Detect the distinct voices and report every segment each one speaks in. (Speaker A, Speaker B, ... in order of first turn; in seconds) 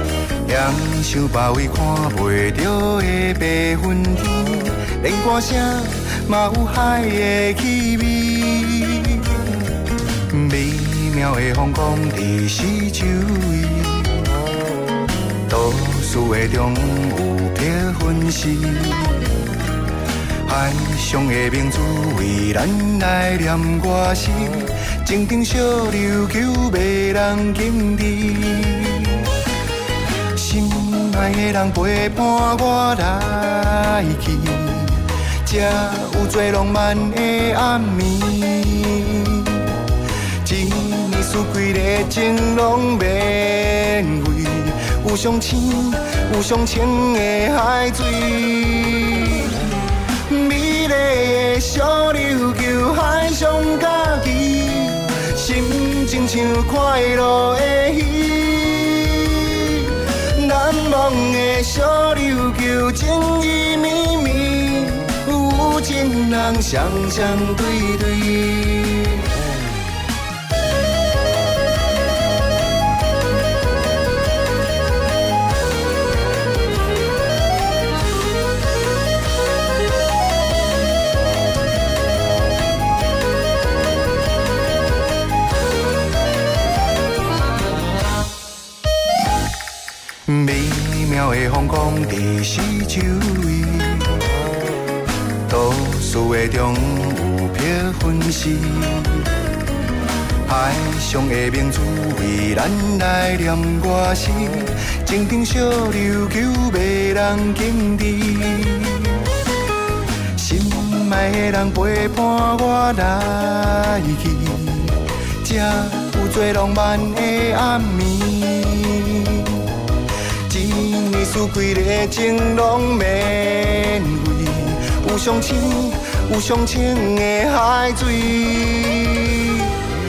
Speaker A: 0.5-9.3, 10.3-14.2, 15.5-19.2, 20.5-29.2, 30.4-39.6, 40.4-49.5, 50.3-69.3, 90.3-94.2, 95.5-99.3, 100.5-109.2, 110.4-119.6, 120.5-129.8